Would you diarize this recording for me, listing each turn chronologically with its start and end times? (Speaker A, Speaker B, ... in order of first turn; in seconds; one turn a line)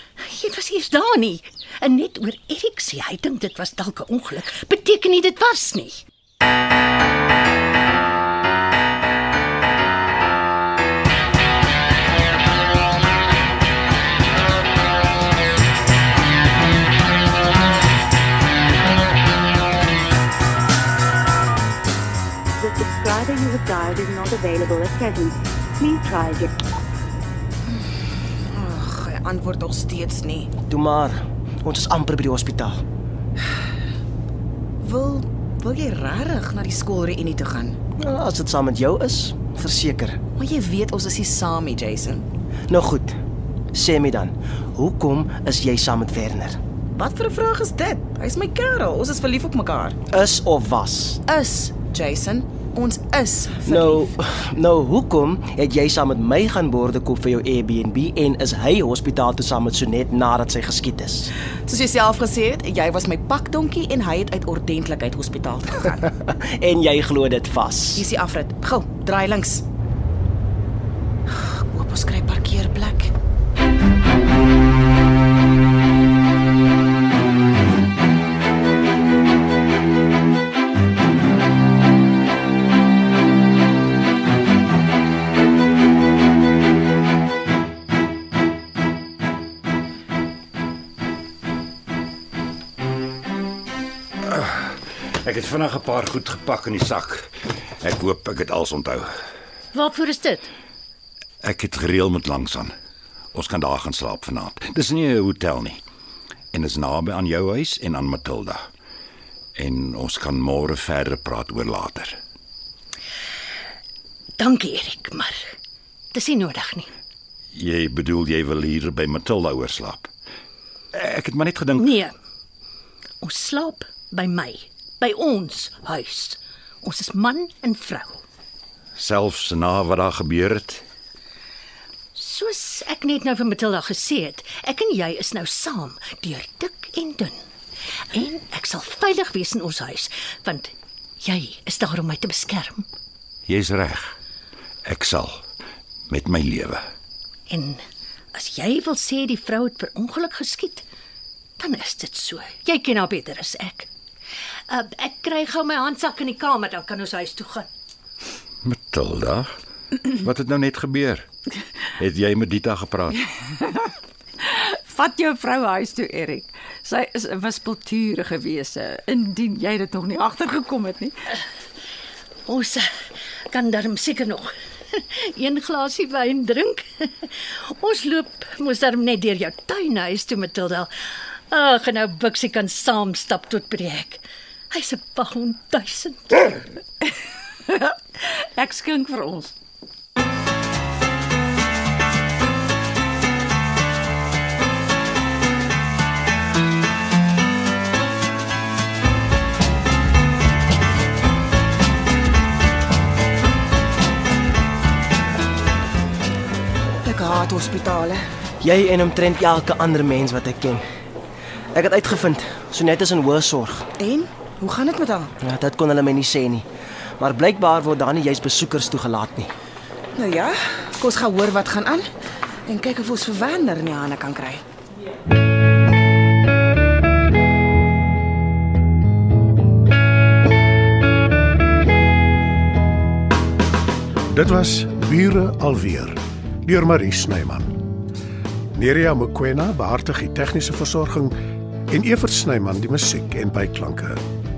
Speaker A: 0.2-6.0
Speaker B: 22.6-26.5
Speaker C: 28.5-30.5
Speaker D: 30.7-32.8
Speaker C: 34.8-37.8
Speaker D: 38.0-40.2
Speaker C: 40.4-42.3
Speaker D: 42.7-43.2
Speaker D: 43.7-46.6
Speaker C: 47.0-50.0
Speaker D: 50.1-51.2
Speaker C: 51.3-54.1
Speaker D: 53.7-61.3
Speaker C: 61.7-66.1
Speaker D: 66.1-68.1
Speaker C: 68.0-69.6
Speaker C: 71.3-73.1
Speaker E: 94.2-97.3
Speaker E: 97.8-99.1
Speaker A: 99.7-100.5
Speaker E: 101.4-102.7
Speaker E: 103.3-105.8
Speaker E: 106.5-108.6
Speaker E: 109.6-112.2
Speaker A: 114.4-115.5
Speaker A: 116.1-116.9
Speaker E: 117.5-120.1
Speaker E: 120.9-121.9
Speaker A: 121.8-122.1
Speaker A: 123.2-128.2
Speaker E: 129.0-130.8
Speaker A: 132.1-137.5
Speaker A: 138.1-142.9
Speaker E: 143.5-144.2
Speaker E: 144.8-145.4
Speaker E: 146.1-146.8
Speaker A: 147.5-147.8
Speaker A: 148.3-150.8
Speaker A: 151.6-153.9
Speaker A: 154.7-157.7
Speaker E: 158.6-159.5
Speaker E: 160.0-161.3
Speaker E: 162.0-163.2
Speaker F: 163.4-171.2
Speaker A: 172.5-172.9
Speaker A: 173.5-186.5
Speaker F: 187.7-189.5
Speaker C: 207.0-208.2
Speaker D: 208.6-210.8
Speaker D: 211.7-213.9
Speaker C: 214.0-215.3
Speaker D: 215.4-216.7
Speaker D: 217.2-219.5
Speaker C: 220.2-222.1
Speaker C: 222.7-224.6
Speaker G: 234.3-237.8
Speaker G: 238.7-241.4
Speaker G: 241.9-244.2